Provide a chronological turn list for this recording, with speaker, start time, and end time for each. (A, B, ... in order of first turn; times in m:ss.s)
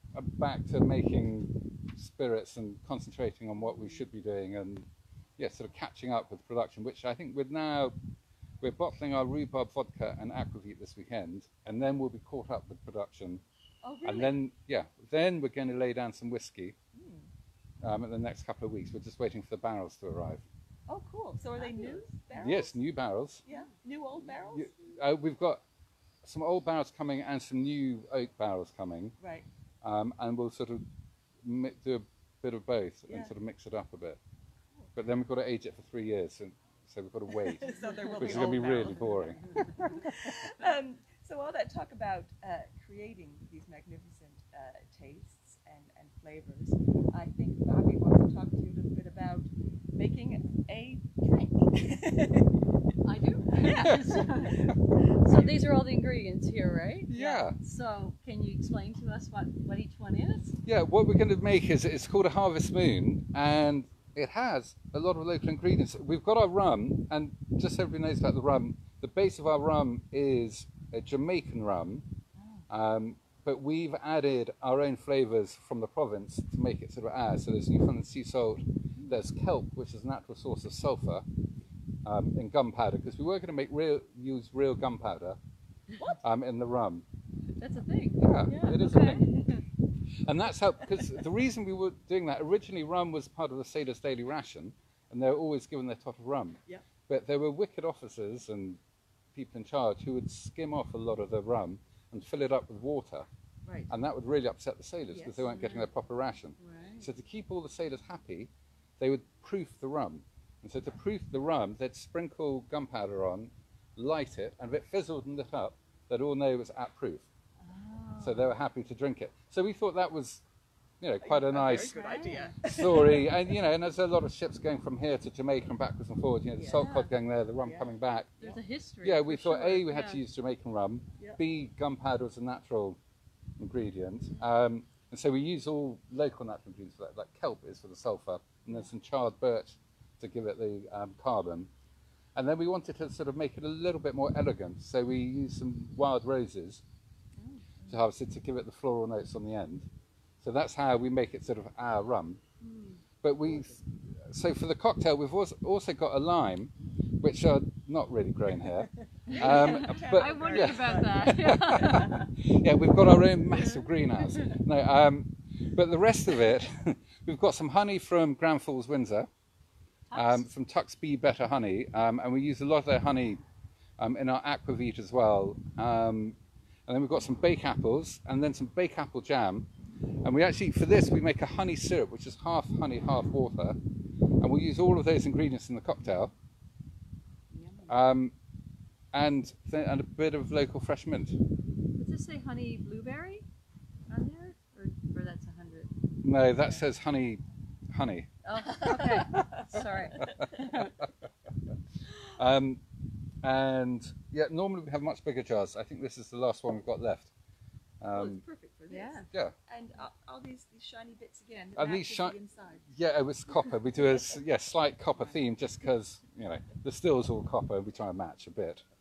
0:00.1-0:07.9 A
0:08.6-0:13.4 A
0:13.8-0:14.3 B
0:14.0-0:16.8 A
0:16.9-0:17.3 B
0:17.8-0:20.4 A
0:20.9-0:22.7 B
0:21.6-0:22.0 C
0:22.3-0:23.4 A
0:23.4-0:24.7 B
0:24.5-0:25.6 A
0:26.2-0:29.1 A
0:29.2-0:29.5 B
0:29.8-0:30.8 A
0:31.4-0:34.2 A
0:33.1-0:33.3 B
0:34.9-0:40.3 A
0:37.4-0:52.6 B
0:53.0-1:00.6 C
0:53.5-0:55.5 B
0:53.8-0:54.1 A
0:57.1-0:57.6 A
1:00.6-1:12.1 A
1:12.7-1:21.2 A
1:22.0-1:25.4 A
1:26.2-1:27.0 A
1:27.6-1:29.6 C
1:28.2-1:29.4 A
1:30.2-1:38.8 A
1:39.3-1:43.3 A
1:43.6-1:43.9 B
1:43.9-1:57.3 A
1:45.1-1:45.5 B
1:45.4-1:45.9 C
1:46.6-1:47.0 C
1:57.6-1:58.5 C
1:58.2-2:00.4 A
2:01.0-2:02.0 A
2:01.2-2:03.3 B
2:01.6-2:02.6 C
2:02.6-2:13.0 A
2:06.6-2:06.8 B
2:06.7-2:07.1 C
2:07.6-2:07.9 B
2:08.4-2:10.2 C
2:13.6-2:21.7 A
2:22.3-2:26.8 A
2:27.5-2:28.0 B
2:27.9-2:29.9 A
2:30.4-2:32.4 A
2:32.6-2:33.0 C
2:33.2-2:49.3 A
2:39.3-2:42.2 B
2:39.3-2:42.3 C
2:43.7-2:44.6 C
2:50.1-2:50.4 C
2:50.1-2:53.4 A
2:54.0-2:59.7 A
3:00.2-3:03.8 A
3:04.4-3:06.3 A
3:07.5-3:07.9 C
3:07.9-3:08.3 A
3:09.1-3:11.4 A
3:12.0-3:13.4 C
3:14.1-3:15.9 C
3:16.2-3:18.3 A
3:18.4-3:21.0 C
3:18.8-3:19.6 B
3:19.4-3:21.0 A
3:20.2-3:20.8 B
3:22.2-3:22.8 A
3:23.4-3:27.3 A
3:28.0-3:28.4 A
3:28.1-3:32.9 B
3:28.9-3:29.2 C
3:31.8-3:32.4 A
3:32.9-3:38.8 A